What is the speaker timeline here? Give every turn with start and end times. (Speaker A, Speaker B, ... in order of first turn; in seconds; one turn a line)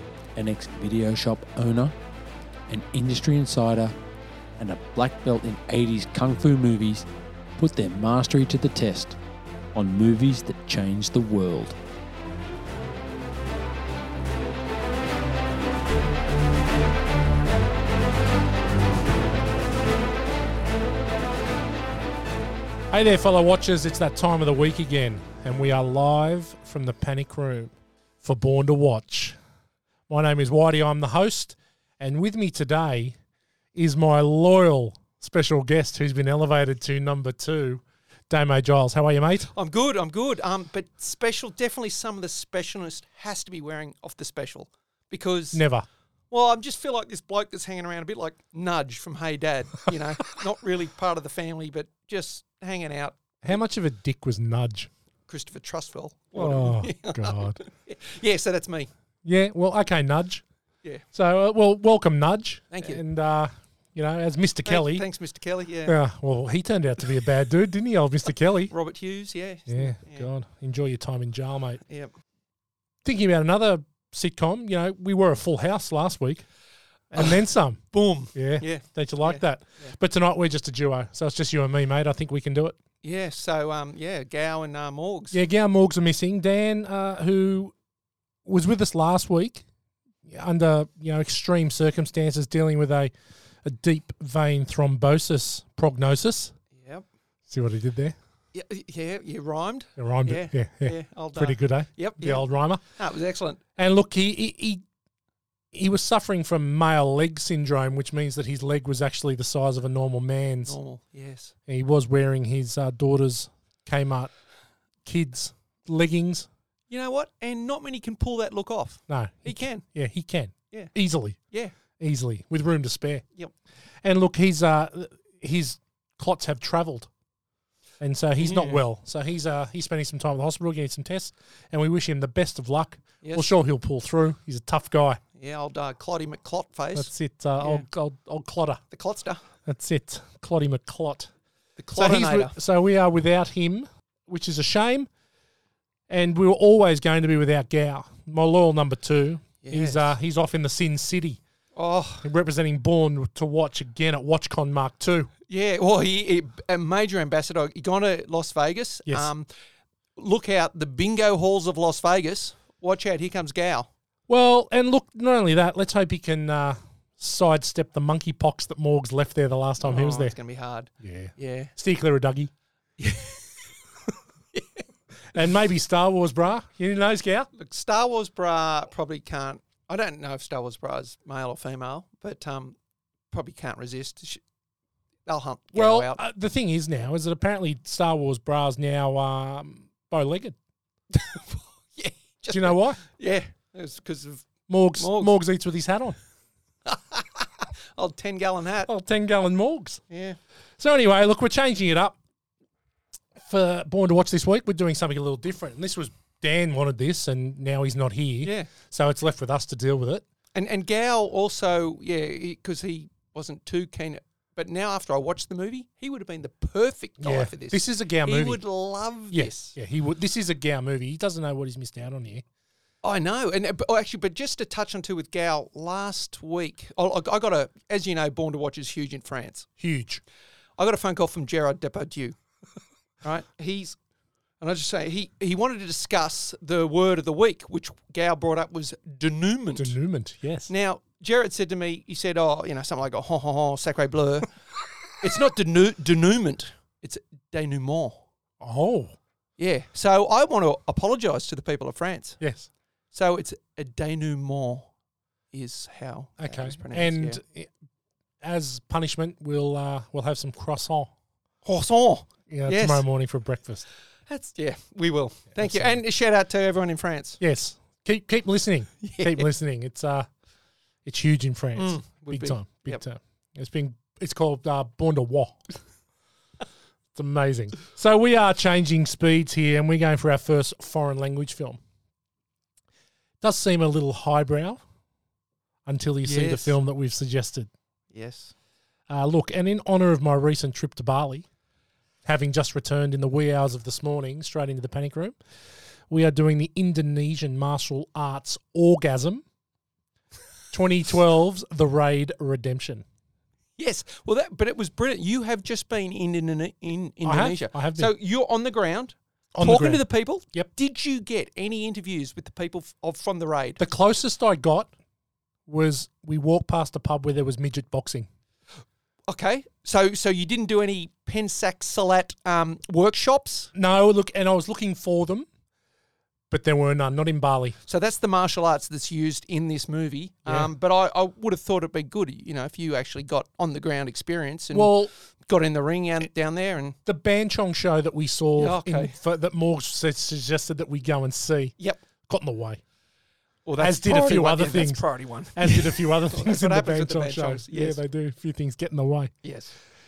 Speaker A: 0.3-1.9
Speaker A: 2.7-3.9
Speaker A: 4.6-7.0
Speaker A: 7.6-9.2
Speaker A: 9.7-11.8
Speaker B: 22.9-29.4
Speaker B: 30.1-33.2
Speaker B: 33.7-39.5
Speaker C: 39.5-45.6
Speaker B: 45.5-45.9
Speaker C: 46.3-53.4
Speaker B: 53.4-54.9
Speaker C: 55.3-58.9
Speaker B: 56.3-57.6
Speaker B: 59.2-60.4
Speaker B: 61.1-65.1
Speaker C: 62.7-63.0
Speaker C: 64.6-66.0
Speaker B: 65.8-68.7
Speaker C: 68.7-70.3
Speaker B: 69.7-71.8
Speaker C: 71.8-72.1
Speaker B: 73.0-76.5
Speaker B: 77.1-77.8
Speaker C: 77.2-77.4
Speaker C: 77.9-80.0
Speaker B: 78.3-82.8
Speaker C: 83.0-85.4
Speaker B: 85.3-87.7
Speaker B: 88.4-89.6
Speaker B: 90.2-93.1
Speaker B: 93.6-96.5
Speaker C: 96.7-97.0
Speaker B: 97.5-98.1
Speaker C: 98.5-103.6
Speaker B: 100.0-102.8
Speaker B: 103.8-104.8
Speaker B: 105.7-110.8
Speaker C: 110.7-111.5
Speaker B: 111.7-114.3
Speaker B: 115.0-116.5
Speaker C: 116.9-119.8
Speaker B: 119.1-121.4
Speaker B: 122.0-123.2
Speaker B: 124.0-127.1
Speaker B: 128.0-135.2
Speaker C: 128.4-128.8
Speaker C: 133.2-133.5
Speaker C: 135.3-137.1
Speaker B: 136.9-138.8
Speaker C: 137.6-137.9
Speaker C: 138.9-139.4
Speaker B: 139.7-141.3
Speaker C: 141.8-142.5
Speaker B: 141.9-145.1
Speaker B: 146.1-151.4
Speaker C: 149.6-150.1
Speaker C: 151.8-152.3
Speaker B: 152.2-155.3
Speaker C: 155.5-159.5
Speaker C: 160.2-163.9
Speaker B: 164.3-170.3
Speaker C: 169.8-171.7
Speaker B: 171.0-172.5
Speaker C: 173.0-173.7
Speaker B: 175.3-177.5
Speaker C: 177.5-182.8
Speaker C: 183.3-184.4
Speaker C: 185.2-186.2
Speaker B: 185.7-190.6
Speaker C: 191.1-195.3
Speaker B: 192.5-193.0
Speaker B: 194.7-196.2
Speaker C: 196.8-198.9
Speaker B: 198.9-200.0
Speaker C: 200.1-200.4
Speaker B: 200.8-202.2
Speaker B: 203.3-210.2
Speaker C: 208.4-208.7
Speaker C: 210.5-219.8
Speaker B: 217.2-218.6
Speaker B: 219.3-222.4
Speaker C: 223.0-229.7
Speaker B: 229.8-230.2
Speaker C: 230.8-232.4
Speaker C: 233.2-234.0
Speaker C: 234.6-240.0
Speaker B: 239.8-240.7
Speaker C: 240.7-244.5
Speaker C: 245.2-248.2
Speaker B: 248.6-249.2
Speaker C: 249.6-252.4
Speaker B: 252.4-252.7
Speaker C: 253.1-254.9
Speaker C: 255.5-257.4
Speaker B: 256.4-257.7
Speaker B: 258.4-261.1
Speaker C: 261.6-263.0
Speaker B: 262.5-263.8
Speaker C: 264.3-267.4
Speaker B: 265.5-266.0
Speaker B: 267.4-270.3
Speaker C: 269.0-269.5
Speaker B: 271.0-275.6
Speaker C: 271.8-273.0
Speaker B: 277.1-281.8
Speaker B: 283.4-284.8
Speaker B: 285.9-287.7
Speaker C: 286.2-286.7
Speaker C: 288.1-288.5
Speaker B: 289.1-291.4
Speaker B: 292.2-295.4
Speaker B: 296.1-299.4
Speaker B: 300.7-303.0
Speaker C: 303.8-313.8
Speaker B: 307.2-308.1
Speaker B: 309.5-310.7
Speaker B: 313.8-314.9
Speaker B: 315.7-318.3
Speaker C: 319.3-323.7
Speaker B: 323.7-325.5
Speaker B: 326.5-327.8
Speaker C: 327.9-337.0
Speaker B: 330.4-330.7
Speaker B: 334.7-335.1
Speaker B: 337.1-341.7
Speaker C: 338.6-339.2
Speaker B: 342.3-342.8
Speaker C: 343.6-348.0
Speaker B: 343.8-349.3
Speaker C: 349.4-349.7